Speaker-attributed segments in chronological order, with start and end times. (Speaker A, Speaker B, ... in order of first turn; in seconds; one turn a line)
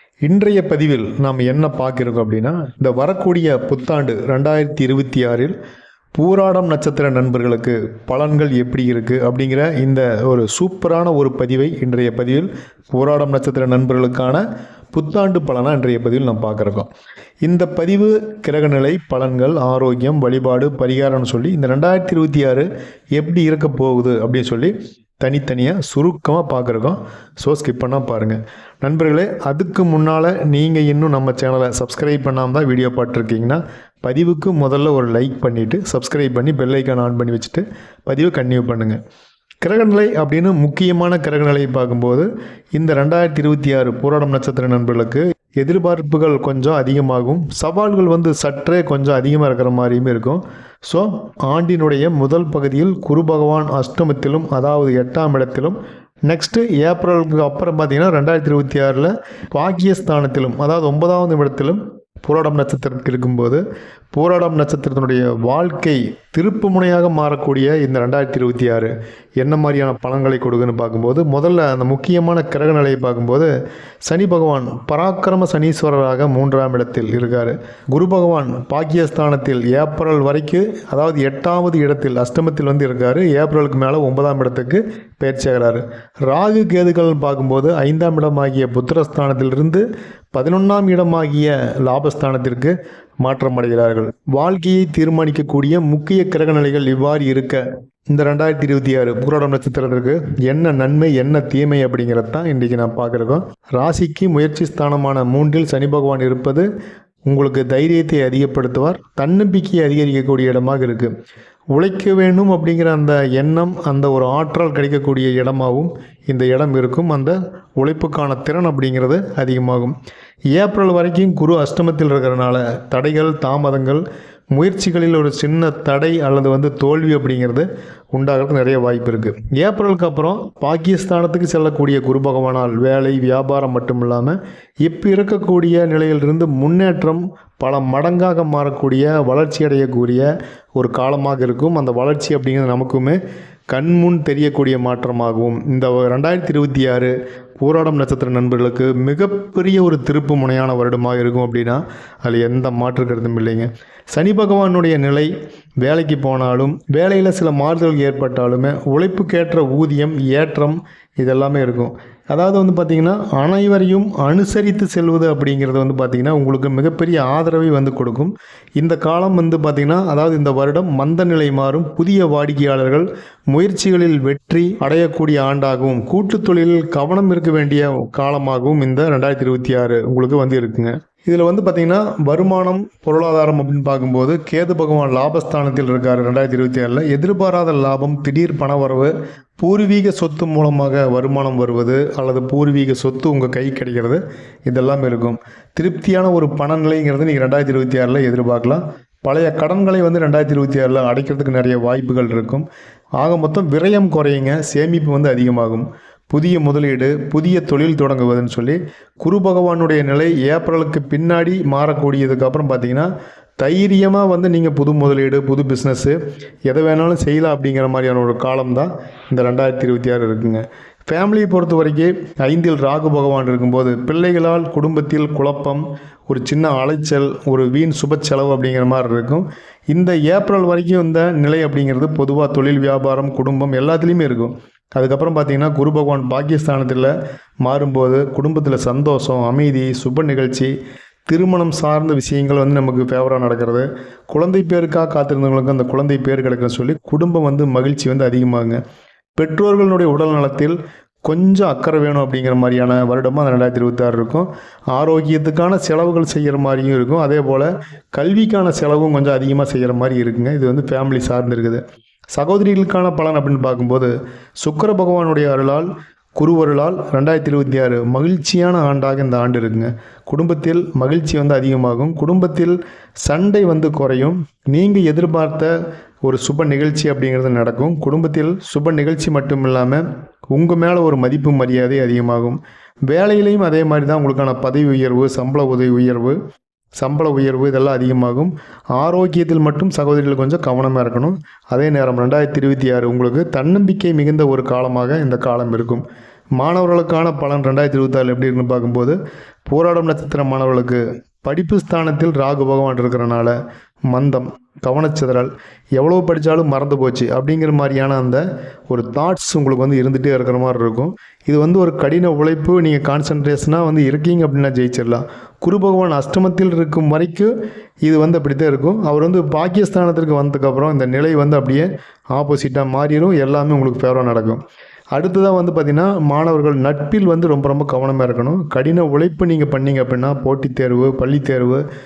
Speaker A: 0.2-5.5
Speaker A: 6.2-14.4
Speaker A: 14.9-16.9
Speaker A: 17.4-39.0
Speaker A: 39.6-63.6
Speaker A: 64.1-73.5
Speaker A: 74.1-106.7
Speaker A: 107.3-111.1
Speaker A: 111.7-120.0
Speaker A: 120.5-124.0
Speaker A: 124.5-155.3
Speaker A: 155.8-202.7
Speaker A: 203.2-237.1
Speaker A: 237.7-240.7
Speaker A: 241.3-248.8
Speaker A: 249.4-261.8
Speaker A: 262.4-275.7
Speaker A: 276.2-286.4
Speaker A: 287.0-296.0
Speaker A: 296.6-303.6
Speaker A: 304.1-317.5
Speaker A: 318.1-324.6
Speaker A: 325.2-331.8